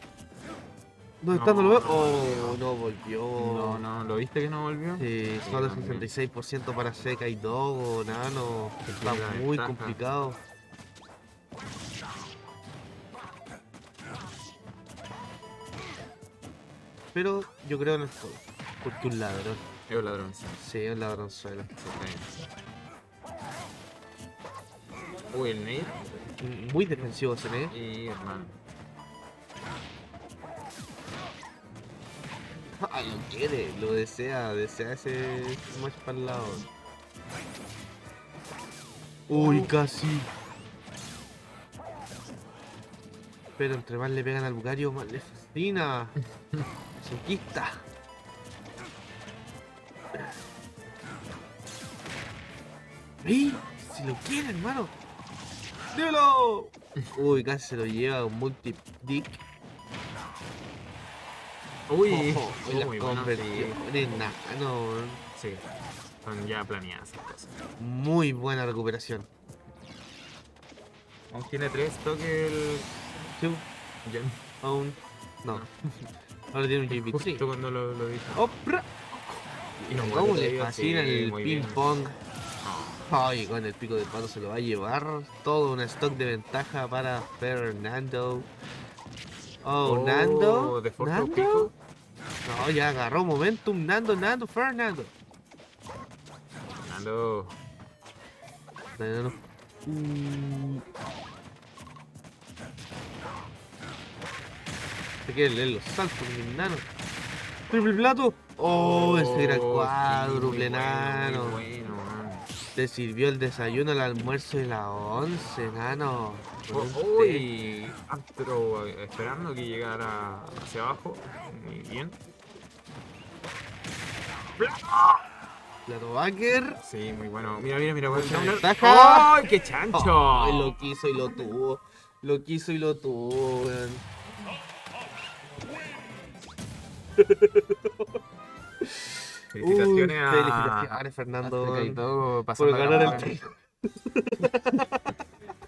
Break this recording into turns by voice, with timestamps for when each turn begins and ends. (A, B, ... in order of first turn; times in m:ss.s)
0:01.2-0:03.8 A
0:01.3-0:02.6 B
0:03.4-0:06.1 B
0:05.0-0:10.4 A
0:08.8-0:10.0 B
0:17.1-0:19.6 A
0:19.9-0:20.6 B
0:20.6-0:21.7 A
0:21.8-0:22.3 B
0:25.3-0:26.3 B
0:26.4-0:27.7 A
0:27.7-0:28.5 B
0:32.7-0:36.7 A
0:39.3-0:40.3 A
0:43.6-0:46.1 A
0:47.0-0:47.9 A
0:53.2-0:54.9 A
0:55.9-0:59.4 A
1:01.9-1:03.8 B
1:02.1-1:05.2 A
1:05.4-1:05.6 B
1:06.2-1:07.5 B
1:07.8-1:09.3 A
1:11.3-1:12.9 B
1:13.4-1:13.6 A
1:14.0-1:14.4 B
1:14.6-1:15.6 A
1:16.5-1:17.4 A
1:16.9-1:18.5 B
1:18.3-1:18.9 A
1:19.8-1:22.2 A
1:19.8-1:21.8 B
1:22.6-1:23.1 B
1:23.1-1:28.5 A
1:29.6-1:31.7 A
1:29.8-1:31.7 B
1:32.4-1:35.1 A
1:36.8-1:37.6 B
1:39.0-1:40.8 A
1:45.2-1:46.9 A
1:47.7-1:51.6 A
1:48.6-1:52.4 B
1:52.8-1:57.5 A
1:56.7-2:02.2 B
2:04.6-2:05.3 B
2:05.8-2:06.8 A
2:06.8-2:10.7 B
2:08.0-2:09.4 A
2:09.9-2:14.0 A
2:17.2-2:17.9 A
2:18.8-2:22.0 A
2:19.5-2:23.3 B
2:22.6-2:25.1 A